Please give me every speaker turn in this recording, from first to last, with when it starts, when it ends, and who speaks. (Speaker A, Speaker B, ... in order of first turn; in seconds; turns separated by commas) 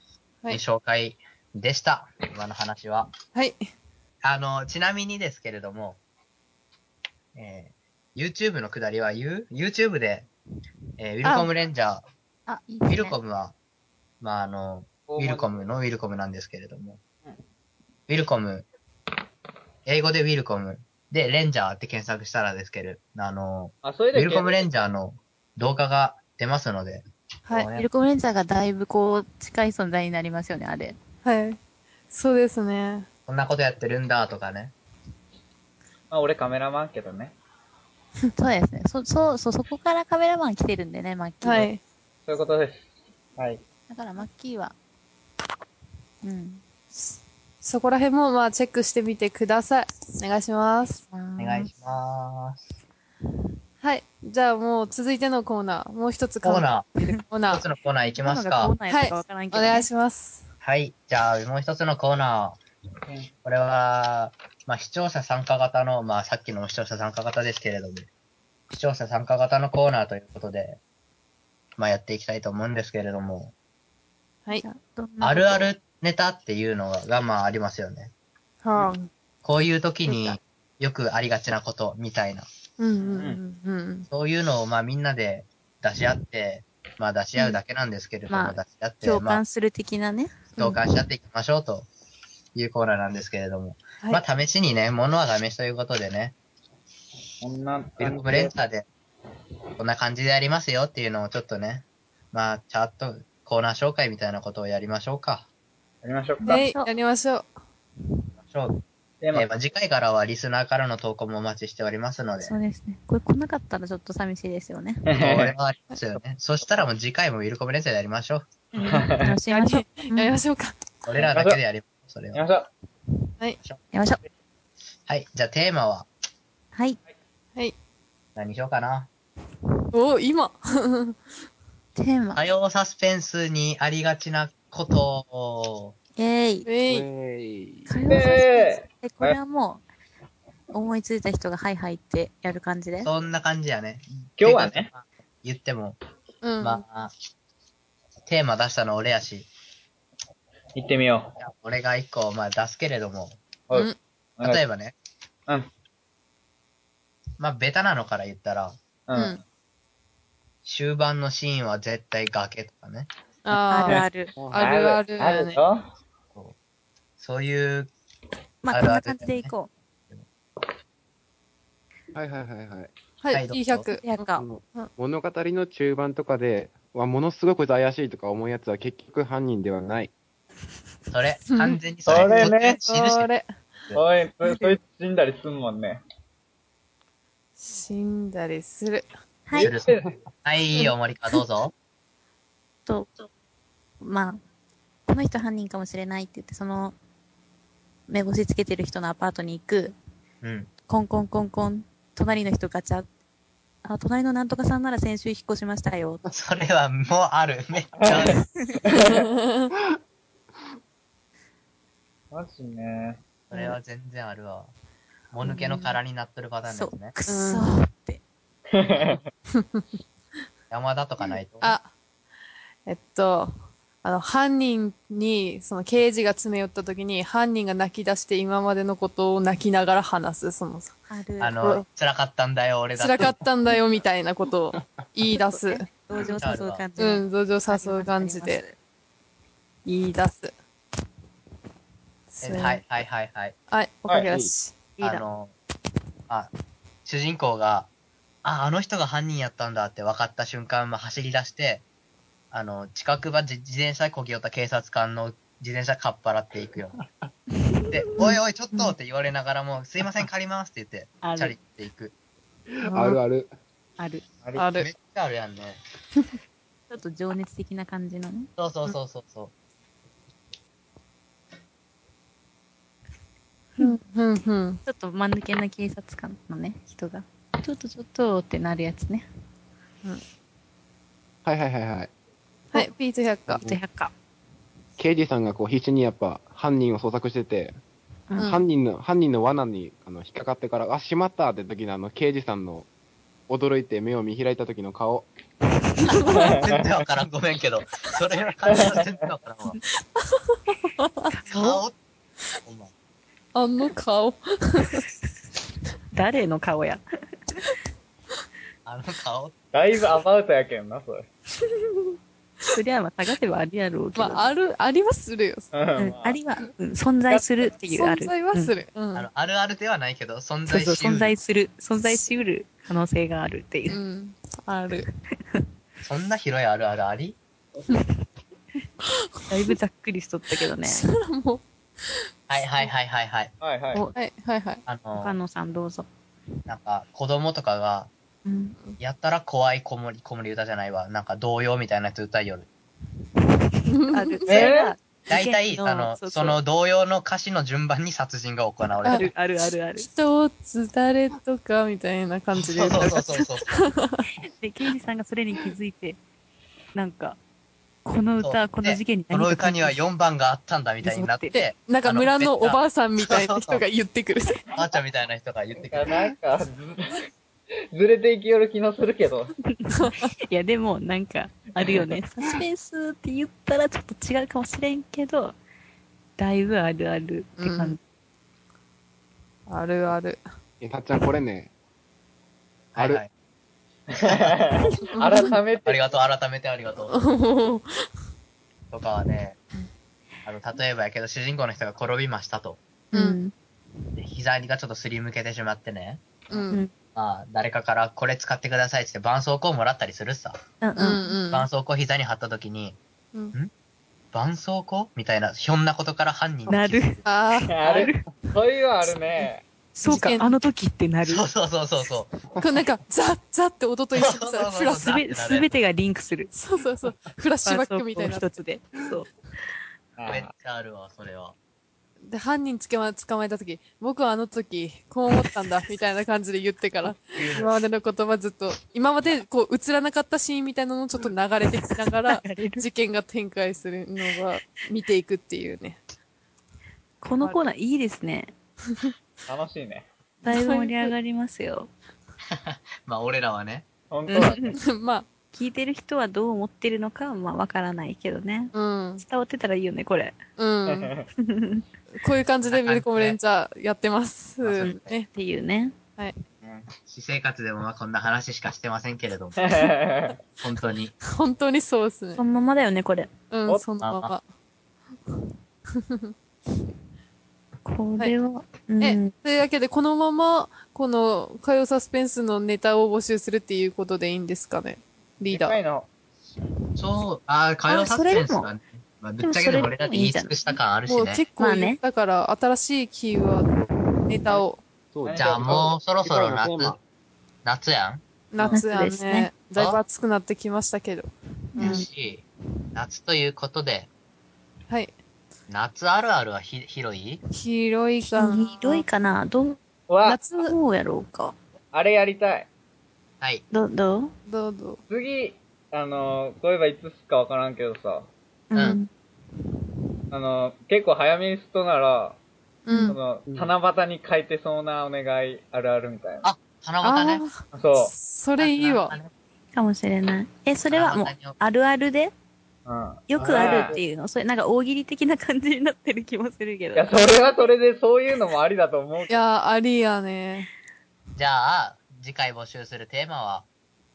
Speaker A: 0.5-3.1, Speaker A: 4.2-6.0, Speaker A: 7.3-10.3, Speaker A: 11.0-12.1, Speaker B: 12.5-13.2, Speaker A: 12.9-13.6, Speaker A: 14.2-17.0, Speaker C: 15.1-15.7, Speaker A: 18.1-18.7, Speaker A: 19.9-27.9, Speaker C: 23.8-24.7, Speaker B: 27.8-31.0, Speaker D: 31.2-31.6, Speaker D: 32.1-33.1, Speaker A: 33.3-34.7, Speaker C: 36.1-37.3, Speaker B: 38.4-41.7, Speaker D: 41.4-41.8, Speaker C: 42.3-43.6, Speaker B: 43.9-44.8, Speaker B: 46.2-46.6, Speaker D: 47.6-51.0, Speaker B: 51.1-51.7, Speaker A: 51.4-52.6, Speaker D: 53.8-56.7, Speaker A: 56.4-58.8, Speaker B: 57.0-57.2, Speaker D: 57.2-57.6, Speaker B: 58.1-59.9, Speaker D: 58.9-60.4, Speaker A: 60.6-62.6, Speaker A: 63.4-68.1, Speaker A: 68.7-70.8, Speaker A: 71.8-73.5, Speaker B: 74.6-75.7, Speaker A: 75.2-78.1, Speaker D: 78.6-79.1, Speaker A: 79.4-82.5, Speaker B: 80.1-80.4, Speaker D: 82.8-84.1, Speaker C: 83.2-83.4, Speaker A: 84.1-89.4, Speaker B: 88.3-90.7, Speaker A: 90.6-91.9, Speaker A: 92.5-96.3, Speaker C: 97.4-98.5, Speaker A: 98.0-98.9, Speaker A: 99.8-105.5, Speaker C: 106.0-106.6, Speaker D: 106.4-107.5, Speaker B: 106.5-106.9, Speaker A: 108.5-108.7, Speaker C: 109.2-109.5, Speaker A: 109.3-112.5, Speaker B: 112.4-115.0, Speaker C: 115.1-115.5, Speaker A: 115.2-118.5, Speaker B: 118.7-120.4, Speaker C: 118.8-119.3, Speaker D: 119.5-120.8, Speaker A: 121.1-122.4, Speaker C: 121.2-121.6, Speaker C: 122.3-122.7, Speaker B: 123.9-124.2, Speaker A: 125.1-126.1, Speaker A: 128.4-129.1, Speaker D: 129.9-131.2, Speaker B: 132.0-132.4, Speaker A: 132.3-135.9, Speaker B: 136.2-136.7, Speaker D: 136.7-137.1, Speaker E: 136.9-137.9, Speaker B: 137.9-139.8, Speaker C: 138.1-139.4, Speaker B: 140.7-143.1, Speaker A: 143.0-146.0, Speaker C: 144.4-144.9, Speaker D: 146.4-146.8, Speaker A: 146.6-147.1, Speaker A: 148.3-149.5, Speaker C: 150.8-151.3, Speaker A: 151.4-153.4, Speaker C: 153.7-154.6, Speaker A: 154.4-154.9, Speaker A: 157.4-158.8, Speaker C: 159.1-159.4, Speaker D: 159.1-159.4, Speaker A: 160.7-163.1, Speaker D: 163.4-165.6, Speaker B: 163.7-164.3, Speaker E: 164.4-164.7, Speaker C: 164.6-165.9, Speaker A: 167.2-167.9, Speaker B: 168.6-169.7, Speaker A: 168.7-169.5, Speaker E: 172.1-172.9, Speaker D: 173.2-174.1, Speaker A: 173.3-173.9, Speaker B: 173.9-174.4, Speaker E: 174.4-180.1, Speaker A: 181.1-183.3, Speaker D: 181.5-183.5, Speaker C: 182.1-182.8, Speaker C: 183.9-186.0, Speaker D: 187.6-189.1, Speaker C: 189.5-190.1, Speaker A: 189.6-191.7, Speaker B: 192.9-193.3, Speaker B: 194.0-194.4, Speaker B: 195.1-197.0, Speaker B: 198.1-200.0, Speaker A: 200.4-200.7, Speaker B: 200.9-203.1, Speaker B: 203.8-206.2, Speaker A: 206.3-208.5, Speaker C: 208.1-209.2, Speaker D: 208.9-209.7, Speaker C: 212.3-213.2, Speaker A: 213.5-214.7, Speaker A: 215.3-217.2, Speaker B: 216.7-218.2, Speaker D: 217.3-217.7, Speaker C: 218.7-219.3, Speaker D: 219.6-219.8, Speaker A: 220.7-221.8, Speaker D: 221.6-221.9, Speaker D: 222.9-230.9, Speaker B: 231.1-231.8, Speaker A: 231.4-233.4, Speaker D: 232.9-235.9, Speaker B: 235.3-238.8, Speaker A: 236.2-236.9, Speaker D: 237.0-238.6, Speaker D: 239.9-240.5, Speaker D: 242.3-242.8, Speaker A: 242.4-243.6, Speaker D: 243.7-244.8, Speaker B: 244.1-245.2, Speaker A: 245.0-245.6, Speaker A: 247.1-247.9, Speaker A: 248.4-251.8, Speaker A: 252.5-257.1, Speaker B: 257.6-258.9, Speaker A: 257.9-262.1, Speaker B: 261.2-261.6, Speaker E: 262.8-263.5, Speaker D: 262.9-263.2, Speaker B: 264.0-264.2, Speaker D: 264.6-264.9, Speaker A: 264.8-265.8, Speaker B: 266.9-268.5, Speaker A: 268.6-269.5, Speaker D: 273.8-274.8, Speaker B: 274.9-279.3, Speaker E: 281.4-282.1, Speaker D: 282.7-283.6, Speaker E: 283.5-283.8, Speaker B: 283.6-284.1, Speaker E: 285.0-287.8, Speaker B: 288.3-288.6, Speaker E: 288.4-292.9, Speaker E: 293.5-295.3, Speaker A: 296.1-299.8, Speaker D: 296.2-296.4, Speaker C: 296.3-296.8, Speaker C: 298.7-299.1, Speaker D: 300.2-301.3, Speaker B: 301.3-301.8, Speaker A: 301.5-302.0, Speaker A: 302.6-302.9, Speaker D: 303.6-305.0, Speaker B: 306.1-307.0, Speaker A: 308.9-309.6, Speaker C: 309.7-311.3, Speaker B: 312.7-314.5, Speaker D: 314.2-315.7, Speaker C: 315.7-316.4, Speaker B: 316.0-318.8, Speaker C: 317.3-317.7, Speaker D: 317.9-319.3, Speaker A: 319.1-321.4, Speaker B: 320.7-324.0, Speaker D: 323.9-325.1, Speaker A: 326.0-327.4, Speaker D: 329.1-329.7, Speaker B: 329.5-331.1, Speaker D: 330.8-331.6, Speaker A: 332.5-333.5, Speaker C: 333.6-334.0, Speaker D: 334.1-334.8, Speaker A: 334.9-335.4, Speaker B: 335.1-336.1, Speaker A: 336.7-338.1, Speaker B: 338.4-338.8, Speaker A: 339.0-342.7, Speaker D: 343.9-344.7, Speaker B: 344.1-346.6, Speaker C: 344.5-344.9, Speaker A: 345.3-349.3, Speaker D: 349.0-349.3, Speaker B: 349.1-350.1, Speaker D: 350.0-354.2, Speaker A: 352.6-353.8, Speaker B: 354.4-356.2, Speaker B: 356.9-357.4, Speaker B: 358.1-360.0, Speaker A: 358.4-363.8, Speaker B: 361.0-361.6, Speaker D: 361.5-364.7, Speaker A: 364.7-366.3, Speaker C: 365.8-367.3, Speaker C: 367.9-369.6, Speaker B: 369.8-375.6, Speaker D: 370.0-370.3, Speaker B: 376.4-378.0, Speaker D: 377.6-378.0, Speaker D: 379.7-380.4, Speaker E: 380.8-381.7, Speaker A: 382.9-383.3, Speaker E: 383.0-383.2, Speaker C: 384.1-386.1, Speaker A: 384.3-384.6, Speaker D: 385.1-385.5, Speaker A: 385.9-387.2, Speaker D: 387.1-388.0, Speaker A: 388.9-389.6, Speaker A: 390.4-392.8, Speaker D: 393.1-393.4, Speaker B: 393.1-393.5, Speaker A: 394.2-396.4, Speaker D: 396.5-396.8, Speaker A: 397.1-400.6, Speaker B: 400.8-401.3, Speaker D: 401.0-401.7, Speaker A: 401.5-403.0, Speaker A: 404.3-407.2, Speaker B: 406.7-408.3, Speaker D: 407.2-407.8, Speaker C: 407.7-409.6, Speaker B: 409.9-411.4, Speaker D: 410.0-410.5, Speaker A: 411.2-412.3, Speaker D: 412.6-415.1, Speaker A: 414.1-415.7, Speaker B: 415.0-416.5, Speaker D: 416.5-418.5, Speaker B: 417.7-419.3, Speaker C: 420.2-420.5, Speaker A: 420.3-421.6, Speaker D: 422.3-436.0, Speaker A: 427.4-427.7, Speaker B: 431.8-432.9, Speaker B: 437.2-438.5, Speaker C: 439.5-440.1, Speaker B: 440.4-441.9, Speaker D: 440.5-441.1, Speaker A: 442.5-443.9, Speaker C: 444.1-444.8, Speaker B: 444.3-444.8, Speaker D: 444.8-445.3, Speaker B: 445.5-450.4, Speaker D: 448.7-449.2, Speaker D: 450.6-451.1, Speaker C: 450.9-451.3, Speaker B: 451.4-451.8, Speaker D: 452.2-455.3, Speaker A: 452.6-453.4, Speaker A: 454.6-455.1, Speaker B: 455.3-455.9, Speaker A: 456.6-459.6, Speaker C: 459.6-460.4, Speaker A: 460.6-461.1, Speaker D: 461.2-462.4, Speaker B: 462.4-463.3, Speaker D: 463.5-464.4, Speaker A: 464.0-464.3, Speaker D: 465.9-466.3, Speaker B: 467.9-469.3, Speaker D: 469.0-475.8, Speaker C: 475.4-476.1, Speaker A: 477.0-481.4, Speaker B: 477.9-478.7, Speaker B: 479.4-480.7, Speaker D: 481.1-483.7, Speaker B: 481.6-482.0, Speaker D: 484.3-484.8, Speaker E: 485.1-487.0, Speaker C: 485.2-485.9, Speaker A: 485.4-487.0, Speaker A: 487.6-488.2, Speaker D: 488.5-492.1, Speaker B: 488.7-489.5, Speaker B: 491.8-492.1, Speaker A: 491.8-492.4, Speaker A: 492.9-494.1, Speaker A: 495.7-497.4, Speaker D: 497.5-499.0, Speaker B: 498.2-499.8, Speaker C: 500.1-500.4, Speaker D: 500.2-500.8, Speaker B: 500.6-501.6, Speaker C: 501.9-502.7, Speaker B: 503.7-504.3, Speaker D: 504.5-505.0, Speaker C: 505.1-508.3, Speaker B: 508.7-509.1, Speaker C: 510.3-512.4, Speaker D: 512.9-513.2, Speaker B: 512.9-513.2, Speaker C: 513.1-516.5, Speaker E: 513.5-513.7, Speaker A: 516.4-517.4, Speaker D: 517.0-519.2, Speaker C: 517.7-518.1, Speaker A: 518.6-519.3, Speaker B: 519.7-522.3, Speaker A: 520.9-521.6, Speaker C: 522.9-524.0, Speaker B: 523.3-527.1, Speaker E: 523.4-524.0, Speaker C: 527.0-529.4, Speaker D: 529.3-530.7, Speaker A: 531.4-533.7